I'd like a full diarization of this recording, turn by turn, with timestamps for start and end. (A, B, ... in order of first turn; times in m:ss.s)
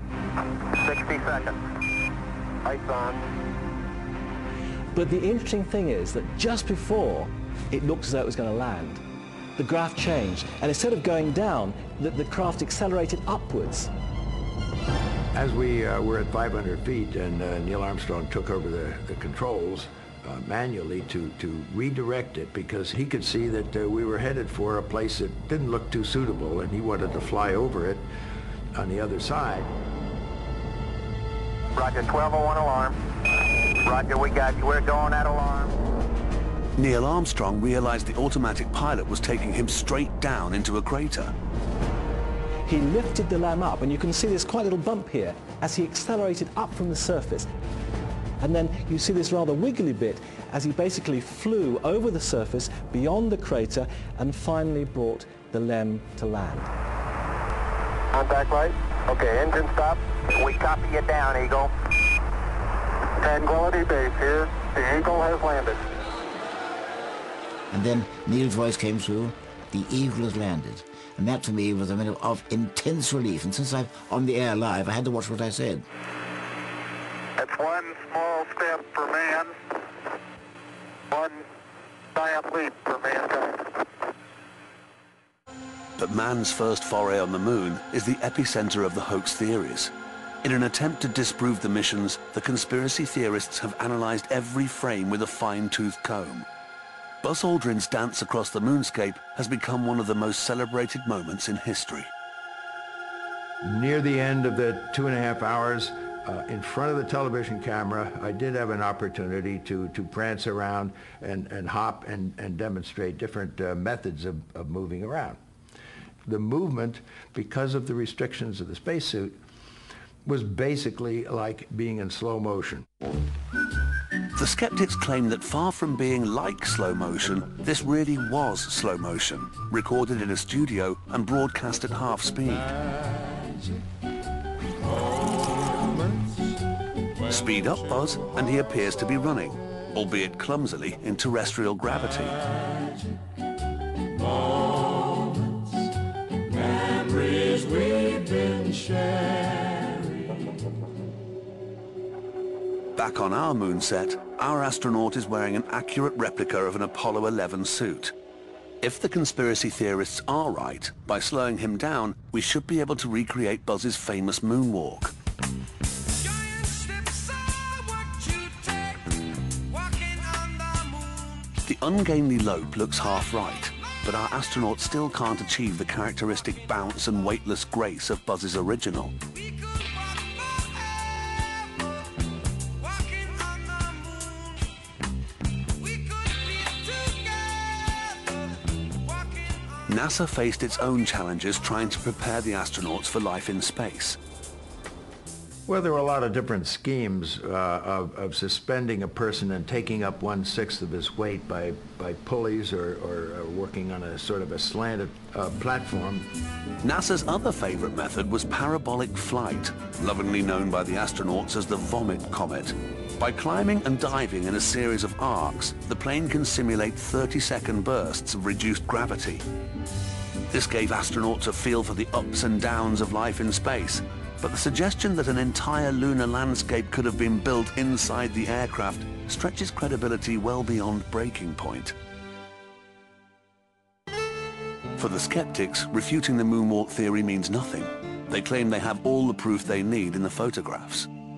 0:00.8-0:01.6 A
0:02.6-0:03.3 A
0:05.0-0:09.0 B
0:09.6-0:13.9 B
0:15.3-0:28.1 C
0:28.8-0:29.7 C
0:31.8-0:33.0 A
0:33.8-0:35.7 A
0:36.8-0:41.3 D
0:42.6-0:47.5 B
0:48.4-0:56.7 B
0:58.1-1:01.7 A
1:03.2-1:05.8 A
1:07.7-1:15.9 E
1:17.4-1:19.6 A
1:21.1-1:21.4 A
1:22.2-1:23.8 A
1:26.0-1:29.9 D
1:30.4-1:36.5 D
1:37.2-1:42.1 D
1:43.6-1:55.4 C
1:56.3-1:59.4 C
2:00.2-2:02.9 C
2:04.4-2:12.7 D
2:17.2-2:22.4 D
2:33.0-2:38.1 D
2:38.8-2:45.2 D
2:48.1-2:48.8 D
2:50.2-2:50.6 D
2:51.4-2:59.2 D
3:09.9-3:14.2 D
3:15.7-3:26.3 C
3:26.8-3:39.4 D
3:40.5-3:52.0 D
3:55.0-4:01.1 D